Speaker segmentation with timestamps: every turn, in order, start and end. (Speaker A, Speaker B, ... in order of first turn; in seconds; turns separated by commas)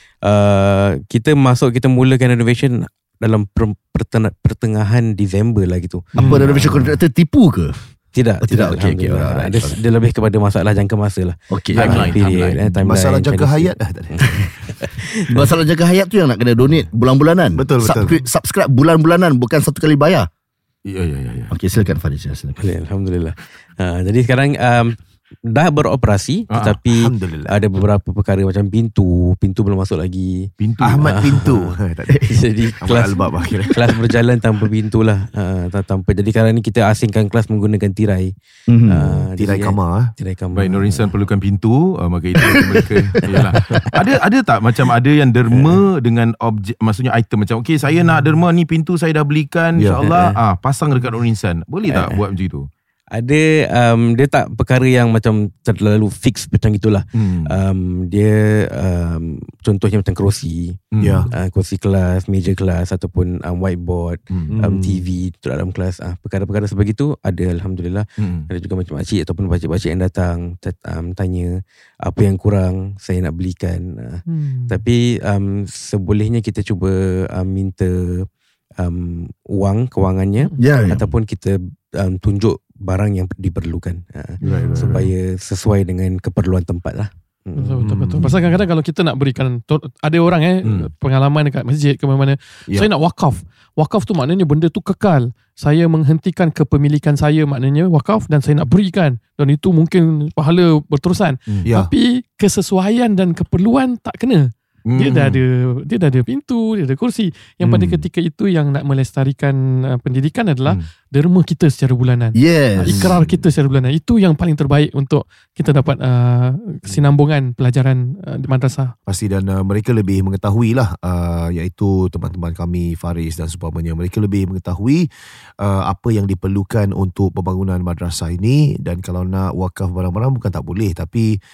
Speaker A: 0.2-6.7, Speaker B: 6.2-7.8, Speaker C: 6.2-6.4, Speaker A: 8.1-13.7, Speaker B: 8.4-9.8, Speaker B: 11.5-12.1, Speaker D: 11.7-12.6, Speaker C: 12.7-14.4, Speaker A: 14.8-15.3, Speaker B: 15.3-20.3, Speaker C: 17.6-18.1, Speaker D: 20.9-21.5, Speaker B: 21.5-22.6, Speaker A: 22.6-25.0, Speaker A: 25.5-31.7, Speaker D: 26.5-26.8, Speaker C: 26.8-27.5, Speaker D: 30.6-31.4, Speaker C: 30.8-34.0, Speaker A: 32.2-38.3, Speaker B: 38.7-39.0, Speaker A: 38.9-41.1, Speaker C: 39.4-40.1, Speaker D: 40.5-52.7, Speaker B: 42.4-42.9, Speaker A: 50.0-50.4, Speaker A: 51.9-52.2, Speaker A: 53.1-78.3, Speaker D: 57.1-57.5, Speaker D: 60.9-61.2, Speaker C: 61.0-61.3, Speaker D: 64.3-64.6, Speaker C: 64.5-65.0, Speaker D: 68.2-68.5, Speaker E: 74.3-74.8, Speaker A: 78.8-87.9, Speaker B: 80.6-81.1, Speaker E: 84.4-85.0, Speaker D: 84.5-85.1, Speaker E: 87.5-118.9, Speaker C: 87.8-88.4, Speaker C: 101.7-101.9, Speaker D: 104.9-105.4, Speaker C: 107.6-108.0, Speaker B: 112.3-113.2, Speaker C: 112.9-113.3, Speaker C: 119.1-125.1, Speaker C: 125.6-131.4